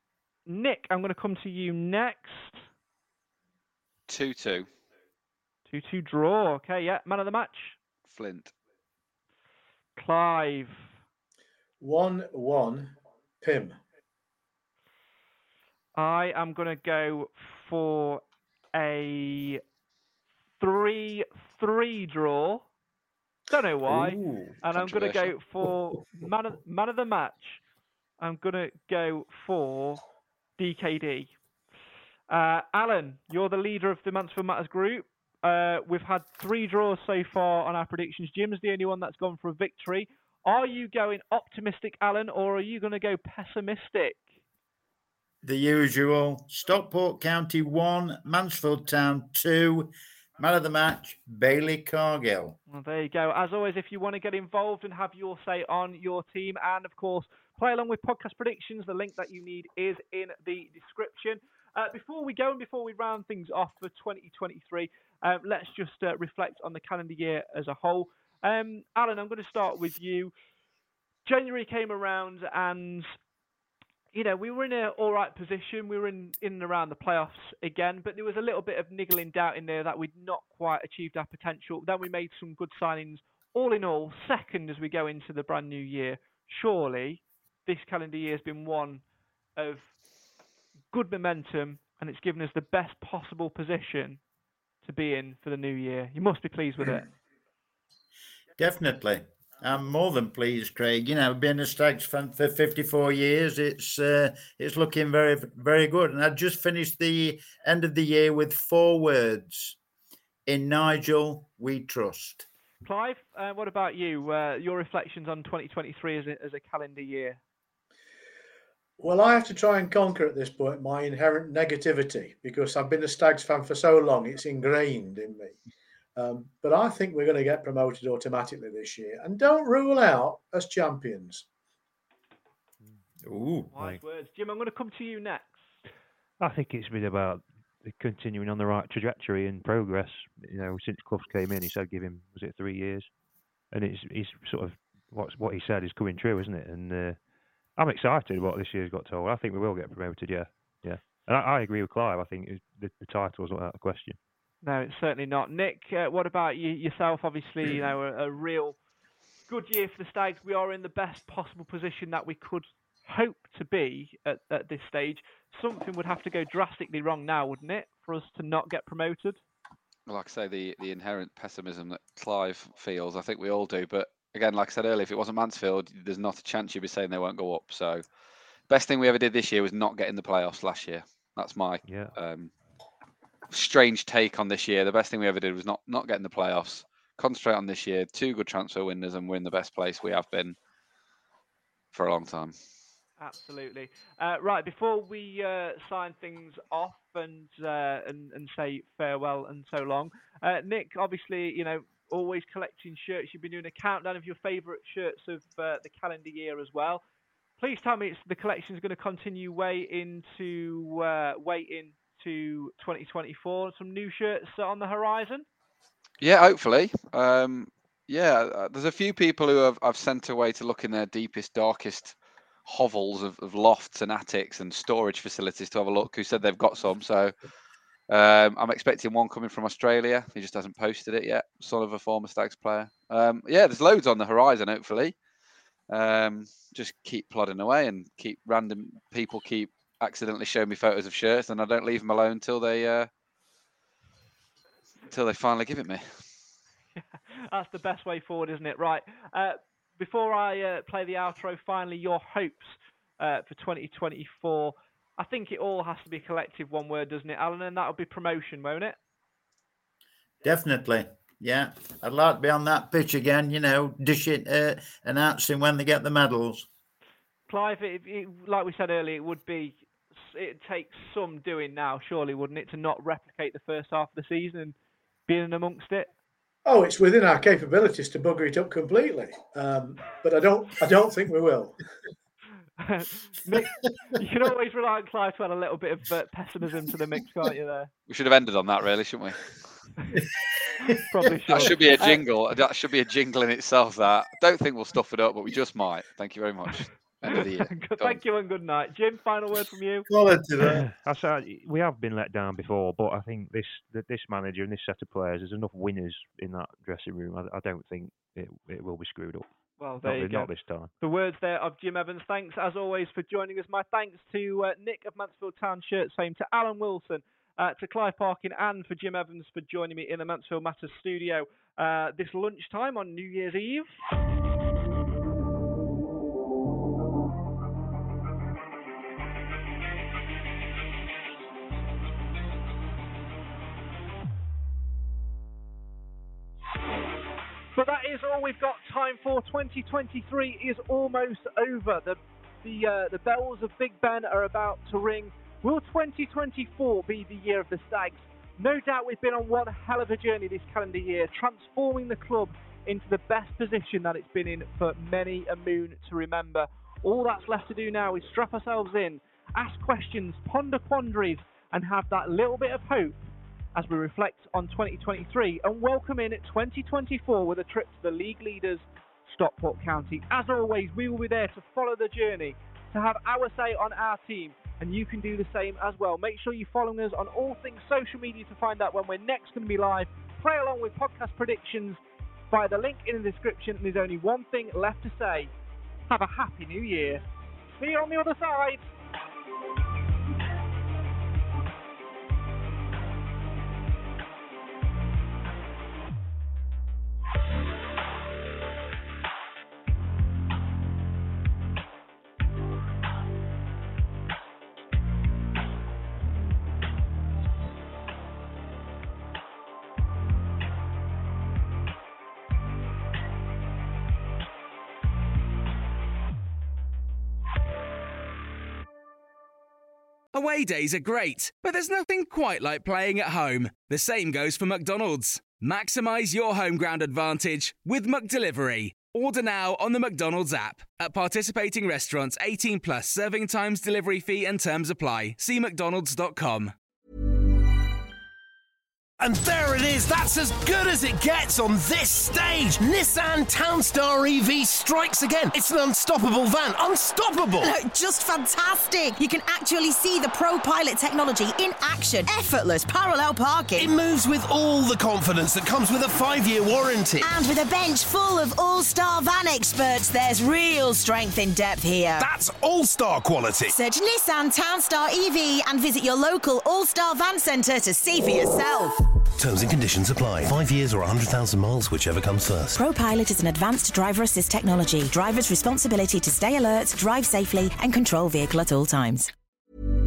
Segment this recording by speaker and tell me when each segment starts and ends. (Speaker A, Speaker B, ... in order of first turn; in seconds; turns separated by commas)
Speaker A: 0.5-2.6, Speaker B: 4.1-4.7, Speaker A: 5.7-7.8, Speaker B: 8.1-8.5, Speaker A: 9.9-10.9, Speaker C: 11.8-13.8, Speaker A: 15.9-18.2, Speaker A: 18.7-19.6, Speaker A: 20.6-22.6, Speaker A: 23.5-27.6, Speaker D: 23.8-24.6, Speaker B: 24.7-25.3, Speaker A: 28.2-30.0, Speaker A: 30.6-31.3, Speaker A: 32.3-44.3, Speaker D: 45.4-52.6, Speaker A: 52.7-70.3, Speaker A: 71.2-73.1, Speaker A: 74.1-89.0, Speaker A: 89.6-89.9, Speaker A: 90.9-94.2, Speaker A: 94.8-97.1, Speaker D: 98.6-109.8, Speaker D: 110.5-112.5, Speaker A: 112.8-117.4, Speaker C: 119.0-125.6, Speaker C: 126.2-131.4, Speaker D: 133.2-133.7, Speaker A: 133.7-135.6, Speaker E: 136.4-143.1, Speaker E: 143.7-147.2, Speaker E: 147.8-154.2, Speaker A: 154.6-158.8, Speaker A: 159.5-169.4, Speaker B: 170.1-178.0, Speaker B: 178.7-182.5, Speaker E: 181.8-182.1, Speaker B: 183.5-190.6, Speaker B: 191.9-192.6, Speaker A: 193.2-207.0, Speaker A: 207.6-215.4, Speaker B: 216.2-227.3, Speaker B: 228.1-235.2, Speaker B: 235.9-243.1, Speaker B: 245.1-246.1, Speaker A: 246.9-259.0, Speaker D: 260.4-266.7, Speaker A: 267.5-274.8, Speaker A: 275.3-276.1, Speaker C: 276.6-281.8, Speaker A: 282.8-287.9, Speaker B: 288.1-289.5, Speaker A: 290.8-292.2, Speaker B: 291.5-298.2, Speaker A: 297.3-300.1, Speaker D: 300.1-300.9, Speaker E: 300.6-309.5, Speaker A: 309.8-323.9, Speaker E: 310.0-310.9, Speaker A: 337.7-363.2, Speaker A: 363.7-382.0, Speaker A: 382.5-385.5, Speaker A: 386.1-387.2, Speaker A: 387.7-388.9, Speaker F: 420.3-436.7, Speaker G: 439.2-447.7, Speaker H: 447.6-453.9, Speaker G: 453.8-457.3, Speaker H: 457.2-462.3, Speaker G: 462.2-463.7, Speaker H: 463.7-468.9, Speaker G: 469.4-472.8, Speaker H: 472.8-479.3